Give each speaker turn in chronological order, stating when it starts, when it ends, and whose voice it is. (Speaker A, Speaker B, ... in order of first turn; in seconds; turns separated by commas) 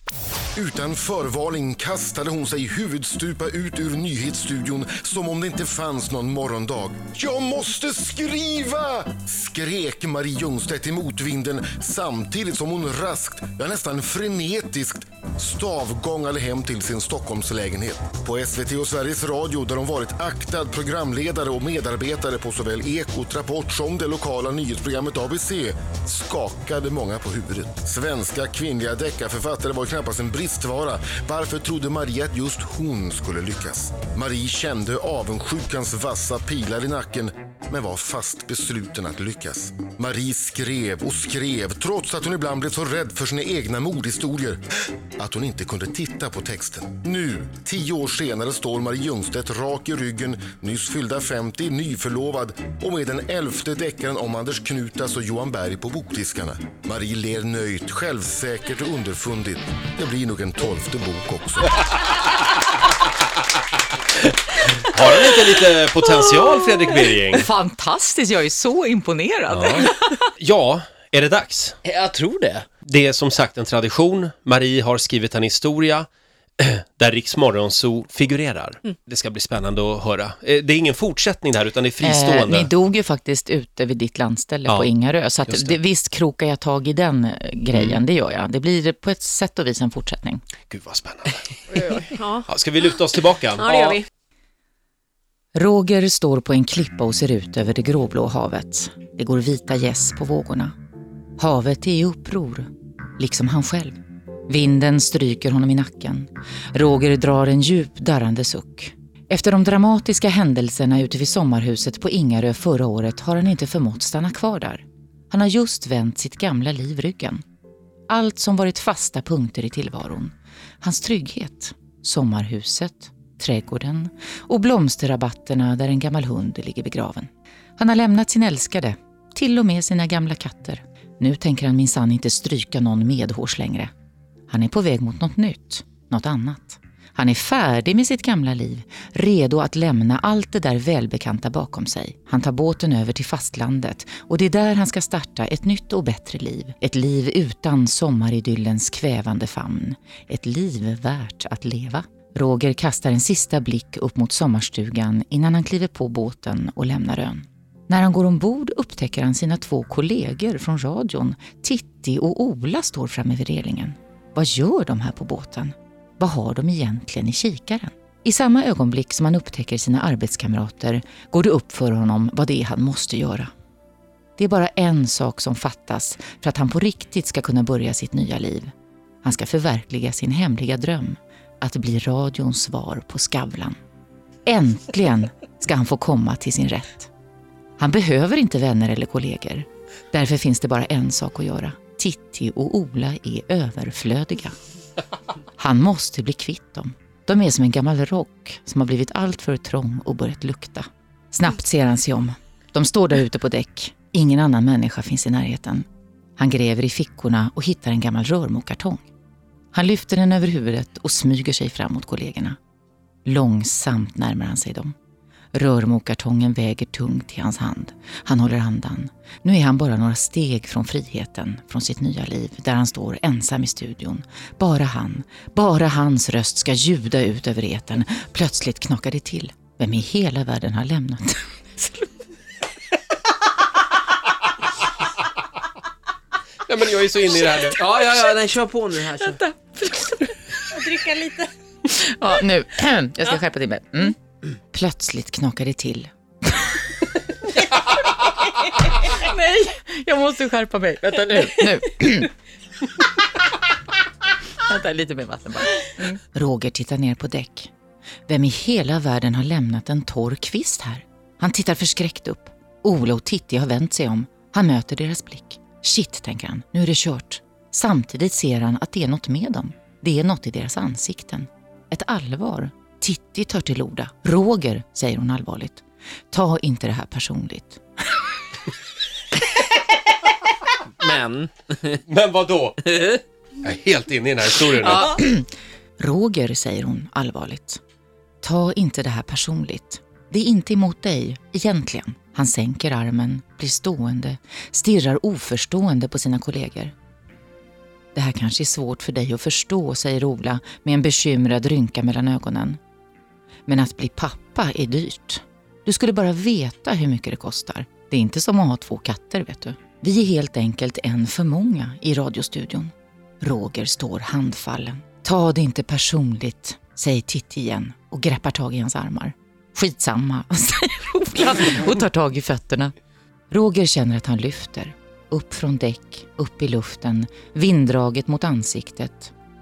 Speaker A: 0.6-44.6, Speaker A: 45.2-61.8, Speaker B: 64.8-67.5, Speaker C: 67.3-70.3, Speaker B: 69.5-71.8, Speaker D: 71.8-72.7, Speaker B: 72.8-82.7, Speaker C: 82.0-90.4, Speaker B: 84.7-84.9, Speaker B: 85.5-85.8, Speaker B: 87.7-88.0, Speaker B: 90.7-94.0, Speaker E: 91.8-92.5, Speaker E: 93.6-94.0, Speaker C: 95.5-100.7, Speaker C: 101.4-117.4, Speaker C: 118.1-133.9, Speaker C: 134.5-173.5, Speaker C: 174.4-178.7, Speaker C: 179.2-183.8, Speaker C: 184.5-187.1, Speaker C: 187.8-194.6, Speaker C: 195.6-205.9, Speaker C: 206.4-209.1, Speaker C: 209.7-212.6, Speaker C: 213.2-214.9, Speaker C: 215.5-231.5, Speaker B: 236.7-237.8, Speaker D: 237.8-239.4, Speaker C: 239.7-240.2, Speaker E: 240.6-241.5, Speaker C: 241.8-244.2, Speaker C: 244.7-247.1, Speaker C: 249.0-252.3, Speaker C: 254.6-257.7, Speaker C: 258.3-277.8, Speaker D: 281.0-282.0, Speaker B: 282.1-282.9, Speaker D: 282.9-283.2, Speaker B: 283.6-285.2, Speaker C: 284.8-287.8, Speaker C: 288.4-296.9, Speaker C: 298.1-302.8, Speaker C: 303.7-322.9, Speaker C: 323.5-329.3